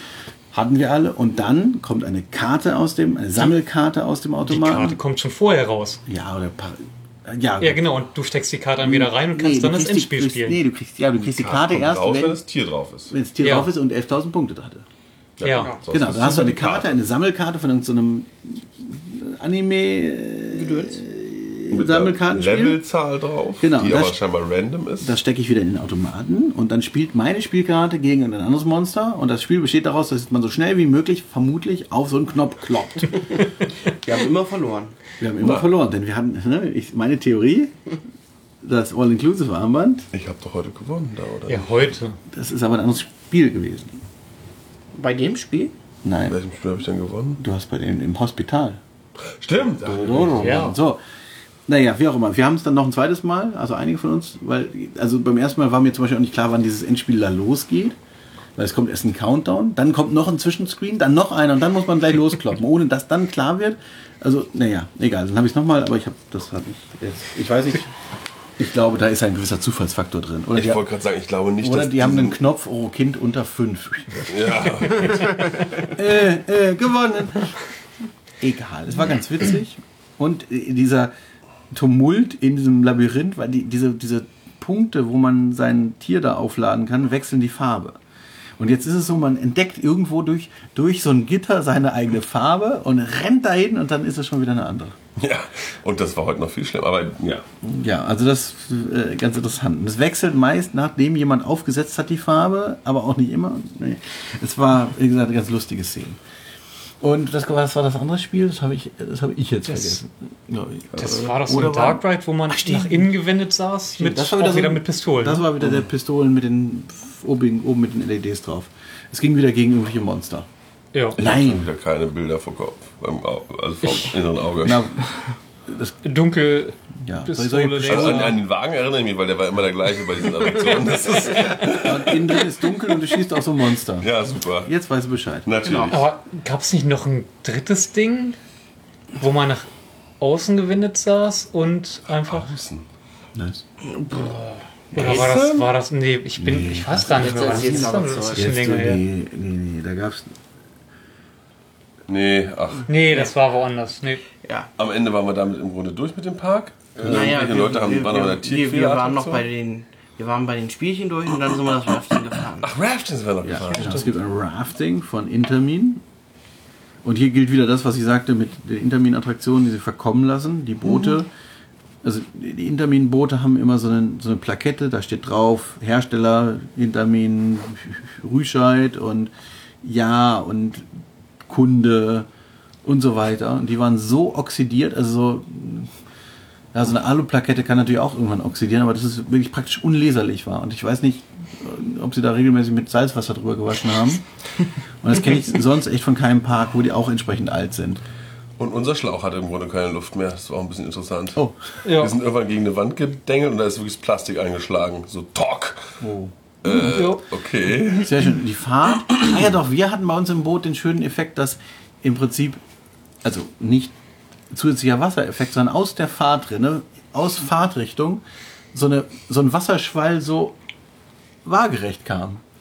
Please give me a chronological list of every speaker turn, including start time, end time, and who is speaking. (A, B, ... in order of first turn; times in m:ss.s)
0:00.5-0:05.0 A
0:04.5-0:06.0 B
0:06.0-0:07.9 A
0:07.6-0:10.6 B
0:08.8-0:12.4 A
0:11.2-0:13.1 C
0:13.1-0:14.8 A
0:13.4-0:13.7 B
0:15.4-0:17.0 C
0:15.4-0:15.7 B
0:15.6-0:15.8 D
0:15.9-0:22.8 A
0:20.5-0:21.0 D
0:21.7-0:25.2 C
0:23.6-0:24.2 A
0:25.0-0:33.2 A
0:33.8-0:35.0 D
0:35.2-0:37.7 A
0:35.4-0:35.7 C
0:38.6-0:40.1 A
0:40.1-0:42.0 C
0:41.5-0:42.2 B
0:42.3-0:44.0 A
0:44.9-0:45.7 D
0:46.0-0:46.4 A
0:46.3-0:47.4 C
0:47.4-0:48.8 A
0:49.2-0:50.7 C
0:49.8-0:51.0 A
0:50.4-0:50.8 B
0:51.7-0:58.0 A
0:58.6-1:07.9 A
1:08.6-1:10.8 A
1:10.5-1:12.4 C
1:11.6-1:14.3 A
1:14.3-1:15.9 C
1:15.9-1:17.6 A
1:18.4-1:21.1 A
1:21.7-1:28.0 A
1:28.6-1:35.0 A
1:35.2-1:37.4 C
1:37.6-1:46.2 A
1:47.0-1:53.0 A
1:49.7-1:50.0 B
1:50.9-1:55.5 B
1:54.0-2:00.5 A
2:00.9-2:01.2 B
2:01.2-2:01.6 A
2:01.2-2:04.8 C
2:04.6-2:05.2 A
2:05.7-2:06.0 A
2:06.0-2:08.4 B
2:07.0-2:08.4 A
2:07.8-2:12.4 C
2:11.7-2:14.1 A
2:14.0-2:14.7 C
2:14.6-2:15.5 A
2:15.4-2:16.1 C
2:15.6-2:16.0 D
2:15.9-2:18.4 B
2:19.2-2:19.7 B
2:20.2-2:22.6 B
2:22.2-2:22.8 C
2:23.3-2:23.6 A
2:23.8-2:25.2 D
2:24.9-2:29.0 B
2:24.9-2:25.7 C
2:26.4-2:30.3 A
2:27.0-2:28.5 D
2:32.1-2:32.9 C
2:32.9-2:34.2 B
2:32.9-2:33.4 D
2:34.4-2:34.7 D
2:34.8-2:39.5 C
2:37.0-2:42.7 D
2:42.6-2:44.2 C
2:43.4-2:46.0 A
2:47.0-2:51.3 A
2:52.0-2:59.3 A
2:59.8-3:00.9 A
3:01.5-3:02.3 A
3:02.8-3:05.9 A
3:06.7-3:14.2 A
3:15.0-3:18.0 A
3:18.6-3:26.0 C
3:21.8-3:22.2 B
3:26.0-3:26.3 A
3:26.6-3:28.4 C
3:26.6-3:27.2 B
3:28.0-3:32.6 A
3:33.2-3:33.9 A
3:34.5-3:40.6 A
3:41.4-3:42.4 A